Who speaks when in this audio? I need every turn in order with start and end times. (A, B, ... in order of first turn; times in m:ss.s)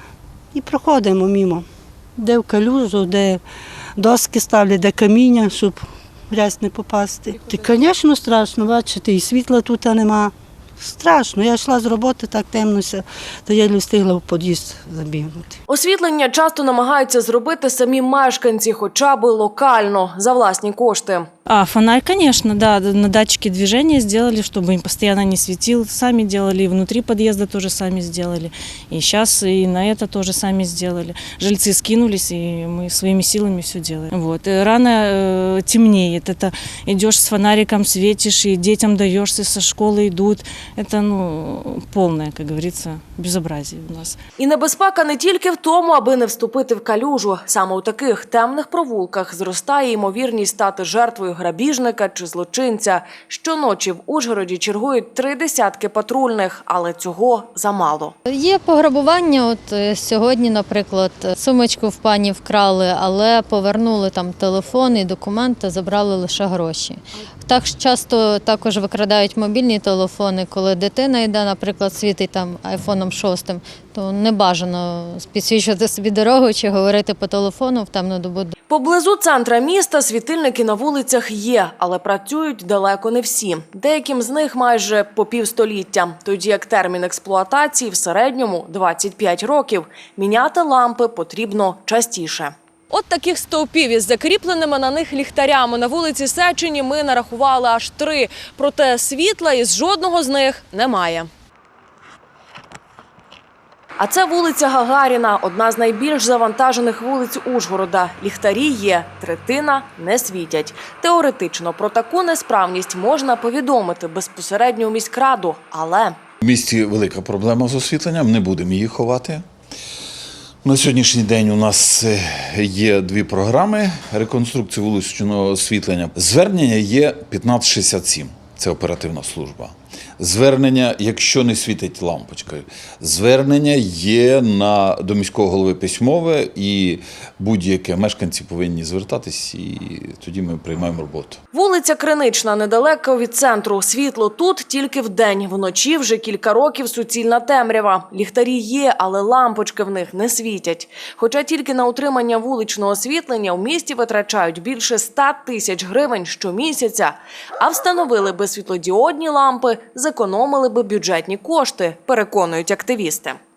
0:00.5-0:01.6 A
0:02.2-0:03.4 A
0:04.0-0:15.6 A
0:15.7-0:21.3 B
0:21.5-0:44.2 C
0:44.4-0:58.1 B
0:58.3-1:18.5 D
1:18.7-1:41.3 B
1:44.0-1:56.2 B
1:56.4-1:59.4 E
2:00.6-2:21.4 E
2:21.5-2:43.4 B